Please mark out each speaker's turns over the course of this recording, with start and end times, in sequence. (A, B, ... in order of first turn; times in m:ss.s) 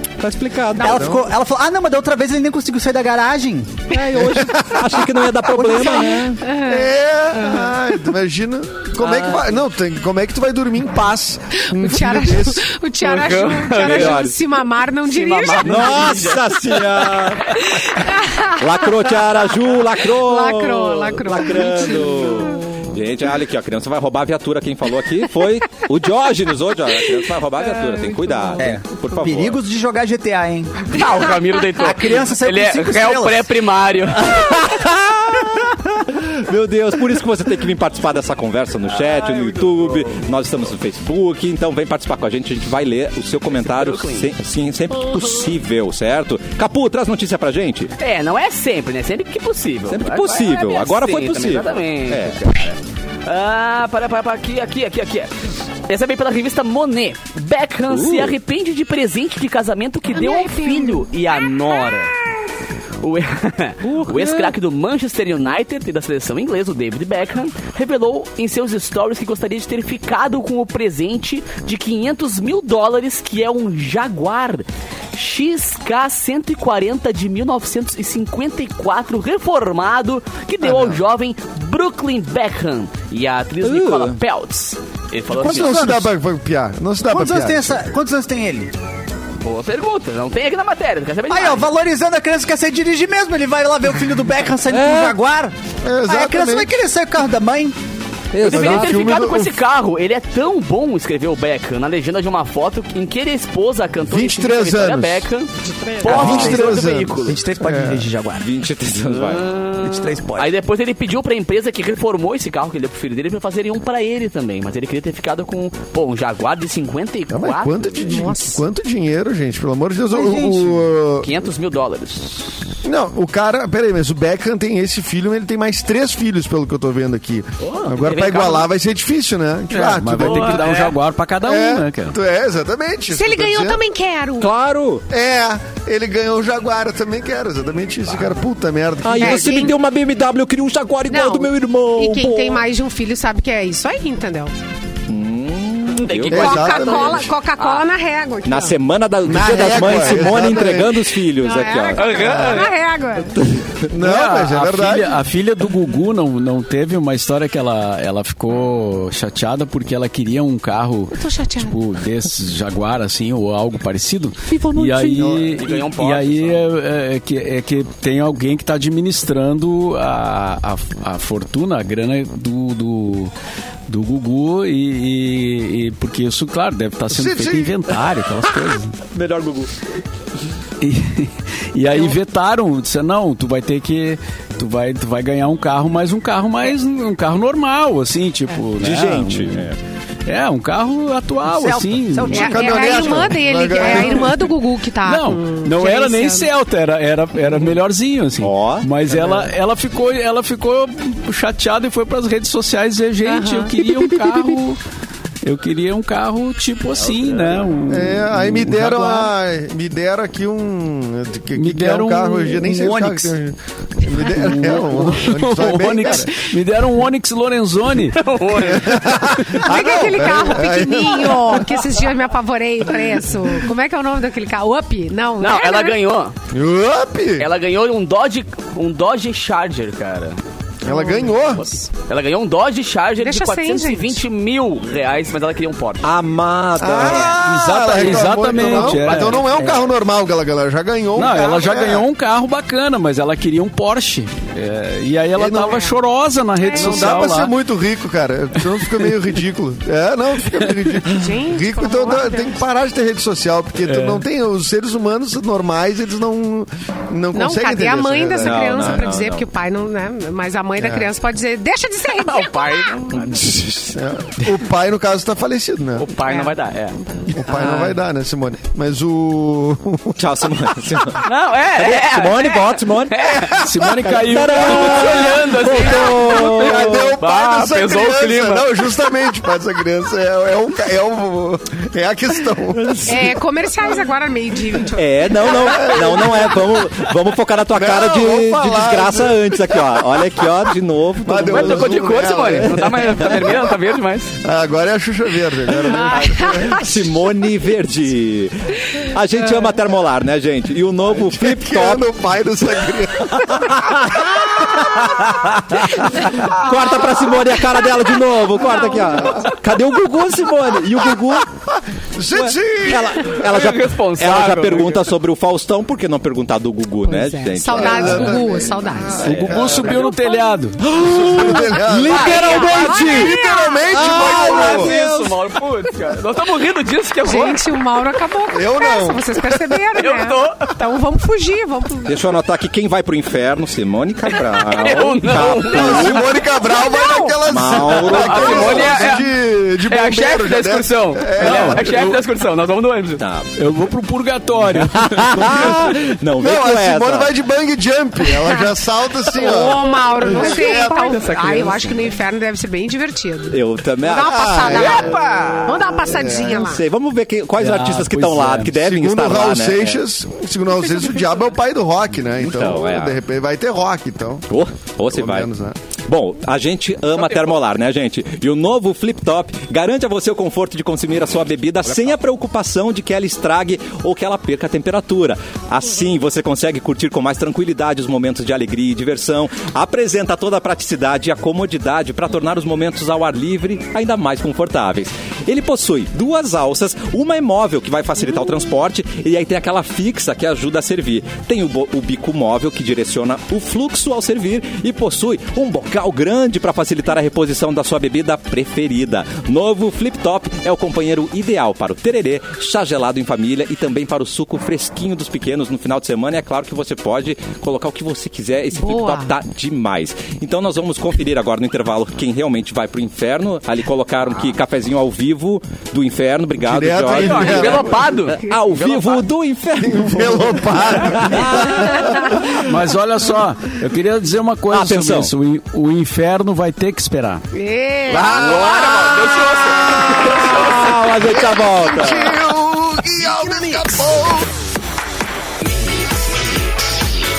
0:00.2-0:01.2 A
0:00.8-0:03.8 B
0:00.8-0:01.2 C
0:03.9-0:06.4 A
0:04.2-0:05.0 C
0:05.5-0:06.2 B
0:06.4-0:07.7 D
0:06.6-0:12.7 C
0:09.0-0:09.5 A
0:11.6-0:16.1 D
0:13.0-0:14.3 E
0:13.8-0:14.3 A
0:15.0-0:17.3 E
0:15.6-0:29.6 A
0:17.7-0:19.1 D
0:20.0-0:22.6 D
0:27.8-0:28.6 D
0:28.6-0:30.9 B
0:30.9-0:34.4 E
0:31.7-0:33.5 B
0:34.2-0:47.9 A
0:38.9-0:40.2 E
0:43.5-0:44.3 E
0:48.0-0:55.3 E
0:49.9-0:52.7 A
0:55.9-1:02.1 E
0:57.9-0:58.3 A
1:00.1-1:01.8 D
1:03.0-1:26.1 E
1:03.8-1:04.5 A
1:20.6-1:20.9 C
1:23.6-1:24.2 A
1:25.4-1:26.1 B
1:25.4-1:27.8 C
1:27.0-1:28.7 B
1:29.4-1:31.7 E
1:31.3-1:35.5 B
1:34.7-1:35.2 A
1:35.8-1:36.8 C
1:36.0-1:37.8 B
1:38.3-1:39.1 A
1:38.4-1:47.4 E
1:38.4-1:39.6 C
1:44.0-1:45.3 C
1:45.7-1:46.1 D
1:46.0-1:48.5 B
1:46.1-1:48.1 C
1:48.3-1:49.5 A
1:49.0-1:58.2 E
1:49.8-1:50.5 B
1:57.3-2:01.4 C
1:58.0-1:58.6 D
2:01.2-2:02.6 E
2:02.8-2:10.7 C
2:07.6-2:08.7 E
2:09.7-2:12.2 F
2:10.2-2:10.9 E
2:11.4-2:13.8 C
2:13.1-2:14.5 D
2:14.4-2:15.0 A
2:15.1-2:19.7 C
2:19.0-2:22.6 A
2:19.2-2:19.7 D
2:21.1-2:24.5 D
2:25.1-2:26.7 A
2:25.9-2:27.8 E
2:26.3-2:27.3 C
2:26.3-2:28.8 D
2:28.4-2:32.2 A
2:29.2-2:31.0 C
2:31.4-2:33.4 D
2:32.0-2:32.7 E
2:32.2-2:32.6 C
2:33.9-2:35.2 C
2:34.0-2:53.3 F
2:41.1-2:41.8 D
2:44.5-2:45.1 D
2:45.1-2:45.6 C
2:45.2-2:46.6 E
2:53.9-2:58.9 F
2:57.1-2:57.9 C
2:59.0-2:59.7 A
3:00.8-3:09.7 F
3:08.8-3:09.8 A
3:10.2-3:12.4 F
3:11.4-3:13.0 B
3:12.3-3:16.5 D
3:12.3-3:14.5 C
3:15.0-3:24.8 F
3:18.4-3:18.9 A
3:23.2-3:23.7 D
3:25.4-3:29.3 F
3:27.0-3:27.6 E
3:27.9-3:36.5 C
3:31.5-3:32.9 F
3:32.8-3:33.3 B
3:34.2-3:38.3 F
3:38.1-3:39.3 E
3:38.6-3:41.9 C
3:39.5-3:46.0 D
3:45.4-3:46.3 E
3:46.5-3:47.5 C
3:47.4-3:50.4 E
3:50.8-3:51.6 C
3:50.8-3:51.8 D
3:51.6-3:56.1 E
3:53.2-3:54.2 D
3:56.0-3:57.4 A
3:56.8-4:02.0 C
3:57.3-3:59.4 F
3:58.4-3:59.7 E
4:01.2-4:07.5 F
4:05.4-4:05.8 C
4:05.7-4:05.9 D
4:06.6-4:07.1 D
4:06.7-4:19.1 C
4:11.1-4:12.6 D
4:13.9-4:14.2 F
4:17.3-4:23.1 D
4:18.4-4:19.4 A
4:20.8-4:21.1 C
4:22.1-4:23.5 E
4:23.1-4:24.0 A
4:23.9-4:26.1 C
4:26.0-4:27.0 E
4:26.2-4:27.3 D
4:27.3-4:30.2 C
4:30.2-4:33.4 A
4:31.2-4:33.6 E
4:33.5-4:35.5 F
4:33.7-4:34.0 C
4:34.1-4:37.1 A
4:34.5-4:38.9 E
4:35.0-4:43.2 C
4:42.7-4:43.3 A
4:43.0-4:46.4 D
4:44.9-4:53.4 A
4:45.4-4:46.8 C
4:47.7-4:50.5 C
4:51.2-4:53.6 C
4:51.3-4:54.4 E
4:54.4-4:56.8 C
4:55.9-4:56.8 D
4:56.0-5:02.1 A
5:01.1-5:04.0 C
5:03.3-5:11.5 A
5:04.7-5:05.0 C
5:12.1-5:13.2 C
5:12.3-5:18.4 A
5:13.3-5:15.1 E
5:17.0-5:19.3 D
5:17.7-5:20.0 C
5:19.2-5:19.6 A
5:19.2-5:20.8 F
5:19.9-5:20.4 D
5:20.8-5:21.6 A
5:20.9-5:25.0 C
5:21.7-5:23.3 F
5:22.1-5:22.7 E
5:22.1-5:24.1 D
5:23.9-5:25.3 A
5:23.9-5:27.6 E
5:27.2-5:32.2 D
5:28.5-5:29.8 C
5:30.0-5:30.7 E
5:32.0-5:36.3 A
5:34.3-5:36.4 E
5:35.4-5:42.0 C
5:35.9-5:37.4 D
5:37.4-5:39.1 A
5:37.8-5:39.3 E
5:39.8-5:43.2 E
5:41.4-5:42.0 F
5:43.2-5:43.5 A
5:43.6-5:45.8 F
5:44.7-5:47.3 A
5:46.4-5:51.2 C
5:49.3-5:56.8 D
5:50.2-5:52.0 E
5:53.5-5:55.0 A
5:54.3-5:55.1 C
5:54.7-5:55.9 E
5:56.1-5:56.7 C
5:56.4-6:00.0 A
5:57.6-5:58.7 F
5:58.8-6:04.5 C
6:02.4-6:03.2 A
6:04.5-6:05.5 A
6:05.1-6:05.8 C
6:06.0-7:02.7 A
6:07.2-6:07.5 E
6:48.7-6:49.3 D
6:56.6-6:58.1 C
6:57.1-6:59.2 E
6:59.8-7:02.3 C
7:02.6-7:07.4 F
7:04.7-7:05.3 A
7:07.5-7:08.9 D
7:08.1-7:10.8 E
7:09.8-7:10.5 C
7:10.1-7:12.4 A
7:11.2-7:14.5 C